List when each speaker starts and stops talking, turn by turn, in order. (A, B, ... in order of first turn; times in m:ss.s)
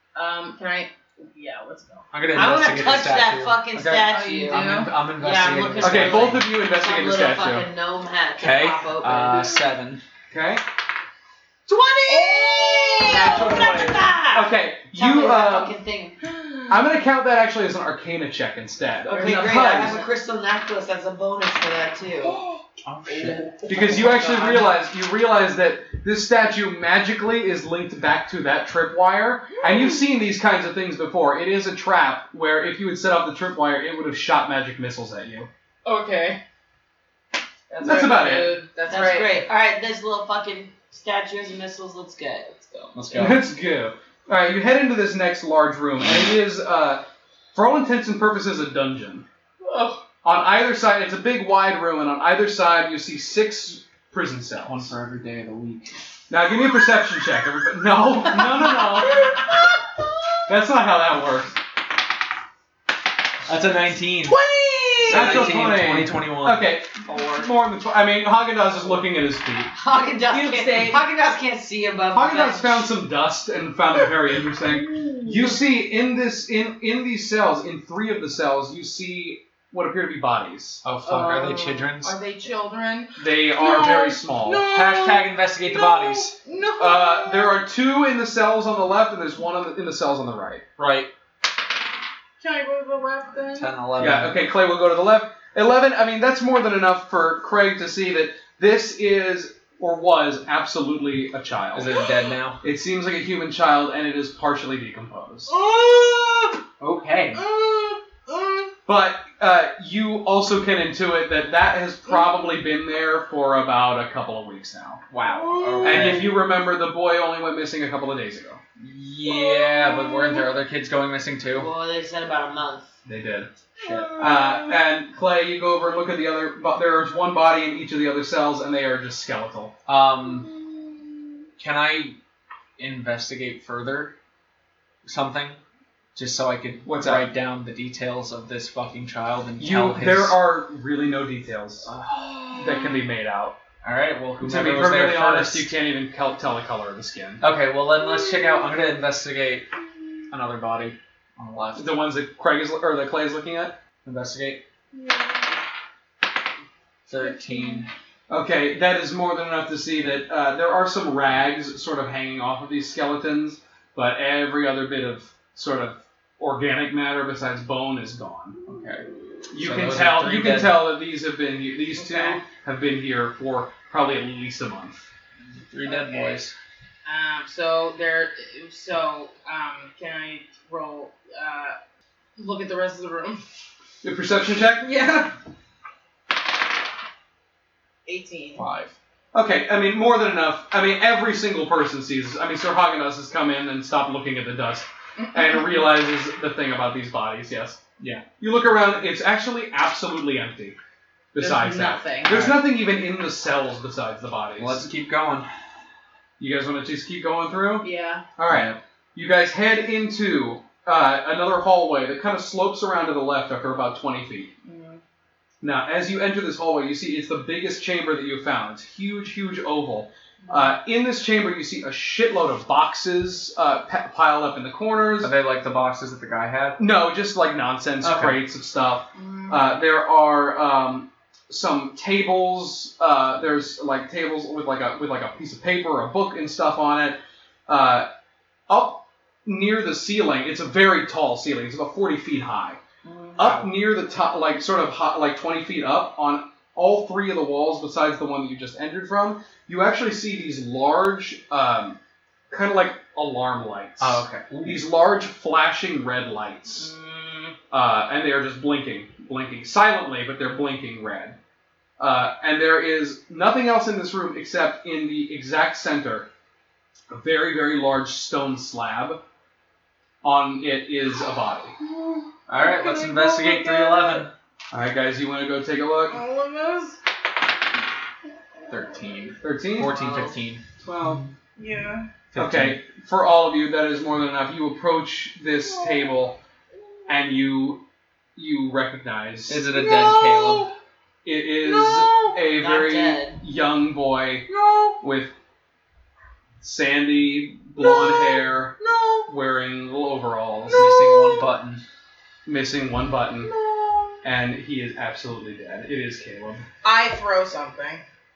0:00.2-0:02.1 A
0:02.1-0:06.5 B
0:02.3-0:09.6 C
0:04.0-0:04.9 A
0:05.8-0:07.7 D
0:08.4-0:10.0 B
0:10.3-0:10.6 D
0:11.7-0:16.2 C
0:12.1-0:14.0 A
0:13.1-0:14.0 B
0:13.1-0:15.8 D
0:16.2-0:16.8 A
0:16.7-0:20.0 D
0:19.0-0:22.4 C
0:19.1-0:20.1 A
0:22.2-0:23.4 A
0:22.8-0:24.1 B
0:23.7-0:35.5 D
0:29.6-0:30.0 A
0:35.8-0:36.4 A
0:37.7-0:39.5 A
0:37.8-0:38.6 D
0:38.9-0:43.3 C
0:43.0-0:43.5 B
0:43.2-0:49.2 D
0:49.6-0:50.0 A
0:50.2-0:54.9 D
0:54.6-0:56.0 B
0:56.3-0:59.4 D
1:00.5-1:01.6 D
1:03.5-1:04.4 B
1:04.3-1:05.6 A
1:05.0-1:06.7 B
1:05.1-1:09.7 D
1:07.1-1:07.5 C
1:09.8-1:12.9 C
1:10.3-1:11.0 A
1:12.1-1:20.8 D
1:14.8-1:15.6 A
1:20.8-1:22.2 B
1:21.0-1:27.6 A
1:23.2-1:24.7 D
1:24.7-1:26.4 B
1:26.8-1:30.6 D
1:30.8-1:31.1 B
1:32.4-1:33.7 A
1:33.5-1:34.4 B
1:34.0-1:42.0 D
1:41.7-1:42.6 B
1:42.6-1:45.5 D
1:45.5-1:46.6 A
1:46.8-1:47.4 B
1:47.3-1:48.7 A
1:48.9-1:55.0 D
1:55.1-1:56.4 B
1:55.4-1:56.2 A
1:55.8-1:58.6 D
1:58.8-2:01.7 B
1:59.3-2:00.4 A
2:01.5-2:02.9 C
2:03.0-2:03.5 D
2:03.8-2:04.2 B
2:04.1-2:04.7 A
2:04.2-2:09.8 D
2:09.9-2:10.5 B
2:11.6-2:12.2 B
2:12.8-2:14.2 B
2:15.0-2:15.6 B
2:16.2-2:20.4 B
2:16.8-2:17.3 D
2:19.6-2:21.9 D
2:21.9-2:22.8 B
2:22.5-2:23.6 D
2:23.8-2:25.7 B
2:24.4-2:27.4 D
2:27.4-2:29.7 B
2:30.3-2:31.9 B
2:31.8-2:33.8 D
2:34.0-2:34.6 B
2:37.1-2:37.9 B
2:37.3-2:37.8 A
2:38.3-2:48.6 D
2:48.7-2:50.9 B
2:49.5-2:55.1 D
2:52.0-2:52.4 A
2:55.7-2:56.5 B
2:55.8-2:56.4 A
2:57.1-3:01.8 A
3:02.4-3:03.4 A
3:04.0-3:05.3 D
3:08.1-3:08.6 A
3:08.6-3:09.0 B
3:09.3-3:20.8 D
3:15.2-3:15.9 A
3:18.0-3:18.2 B
3:21.3-3:24.9 D
3:21.4-3:22.4 A
3:22.3-3:22.6 B
3:24.6-3:25.5 B
3:26.4-3:34.5 D
3:27.8-3:28.2 A
3:28.5-3:28.8 B
3:34.6-3:35.0 A
3:35.6-3:45.3 D
3:40.4-3:40.8 A
3:45.2-3:46.8 B
3:46.8-3:58.1 D
3:48.0-3:48.4 B
3:49.2-3:49.6 A
3:58.7-4:02.8 D
4:03.1-4:03.4 C
4:03.4-4:12.0 D
4:03.4-4:03.7 B
4:12.5-4:16.9 D
4:14.0-4:14.9 B
4:16.8-4:17.6 A
4:17.7-4:21.4 D
4:22.0-4:26.3 D
4:27.1-4:29.2 D
4:30.2-4:31.8 D
4:31.8-4:34.3 A
4:32.5-4:34.3 B
4:34.7-4:36.2 D
4:36.1-4:37.0 A
4:38.7-4:40.6 B
4:39.4-4:40.0 D
4:39.9-4:40.4 C
4:40.8-4:41.3 D
4:41.6-4:42.1 A
4:42.3-4:42.8 B
4:42.4-4:46.4 D
4:45.7-4:46.1 A
4:47.1-4:47.8 D
4:48.4-4:49.7 D
4:49.5-4:50.7 B
4:49.7-4:50.7 A
4:51.2-4:54.5 D
4:51.6-4:52.4 A
4:52.5-4:53.4 C
4:54.5-4:55.0 A
4:55.0-4:55.3 D
4:56.6-5:00.9 D
4:57.8-4:59.3 A
5:00.7-5:01.8 B
5:00.7-5:01.5 A
5:02.5-5:03.5 D
5:03.4-5:04.2 A
5:04.2-5:06.7 D
5:06.8-5:08.0 A